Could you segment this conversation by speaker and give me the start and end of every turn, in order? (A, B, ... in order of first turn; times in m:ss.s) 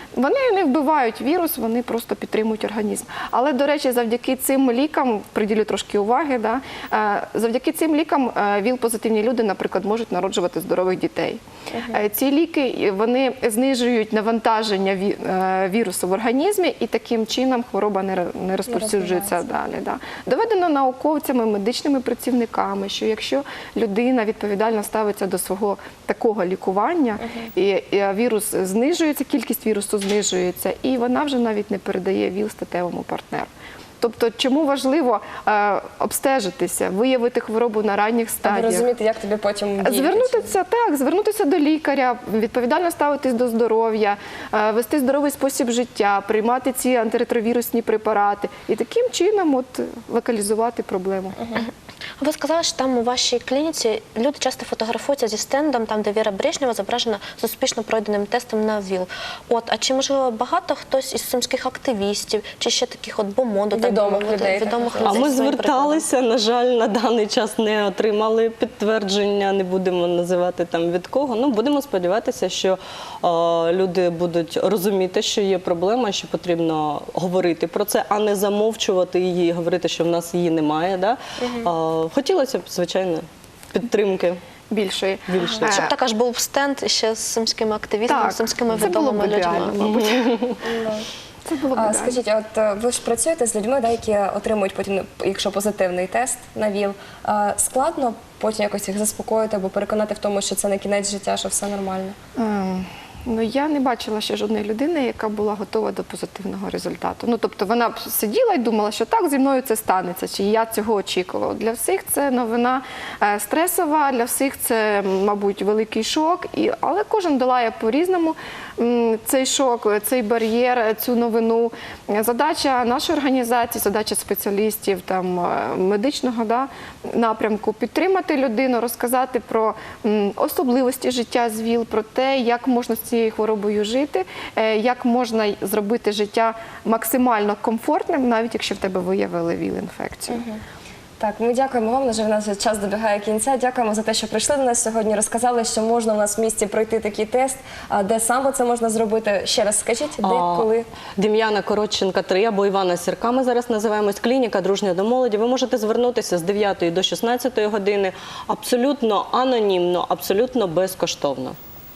0:00.1-0:33.5 A
0:11.7-0:12.0 B
0:18.7-0:19.6 B
0:27.2-0:27.5 B
0:34.0-0:38.9 A
0:38.4-0:40.5 B
0:39.8-0:51.4 A
0:52.2-1:06.1 C
1:03.7-1:05.4 B
1:05.0-1:24.4 D
1:21.4-1:21.7 B
1:24.7-1:25.9 A
1:25.3-1:25.9 D
1:25.6-1:30.2 C
1:28.1-1:30.5 A
1:30.6-1:31.1 B
1:31.4-1:32.2 A
1:31.7-1:42.2 B
1:42.4-2:20.4 A
2:20.3-2:20.6 B
2:21.2-2:30.9 B
2:30.2-2:41.6 D